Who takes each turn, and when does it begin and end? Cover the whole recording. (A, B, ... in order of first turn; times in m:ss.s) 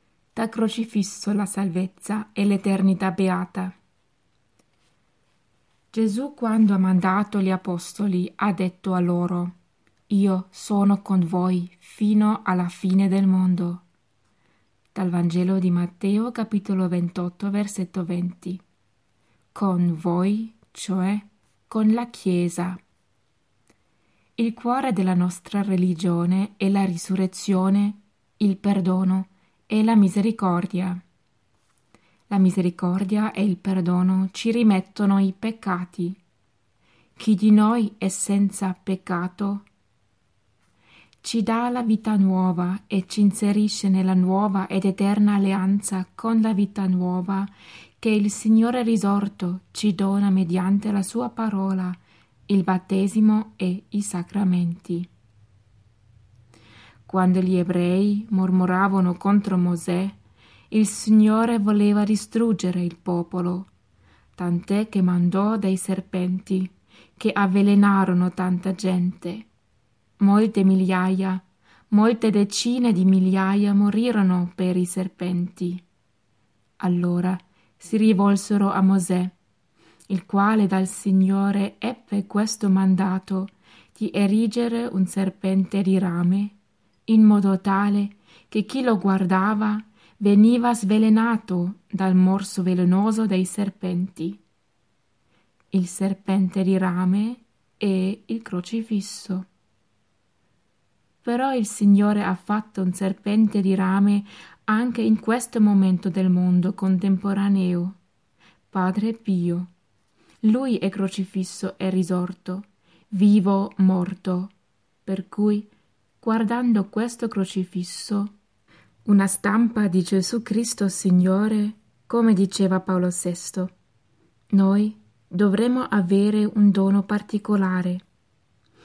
0:00.3-0:03.7 A
0:05.9-0:09.5 A
0:10.1-0:13.8 A
0:14.9-0:18.6 A
0:19.5-0:22.8 A
0:24.4-0:31.0 A
0:32.3-0:36.2 A
0:37.2-0:39.6 A
0:41.2-0:55.1 A
0:57.1-1:00.2 A
1:00.7-1:03.7 A
1:04.4-1:09.5 A
1:10.2-1:15.8 A
1:16.8-1:19.3 A
1:20.1-1:26.6 A
1:27.1-1:34.4 A
1:35.7-1:39.5 A
1:41.2-1:48.0 A
1:48.7-1:49.7 A
1:50.4-1:54.5 A
1:55.0-1:55.7 A
1:56.2-1:58.3 A
1:59.0-2:03.7 A
2:04.5-2:08.0 A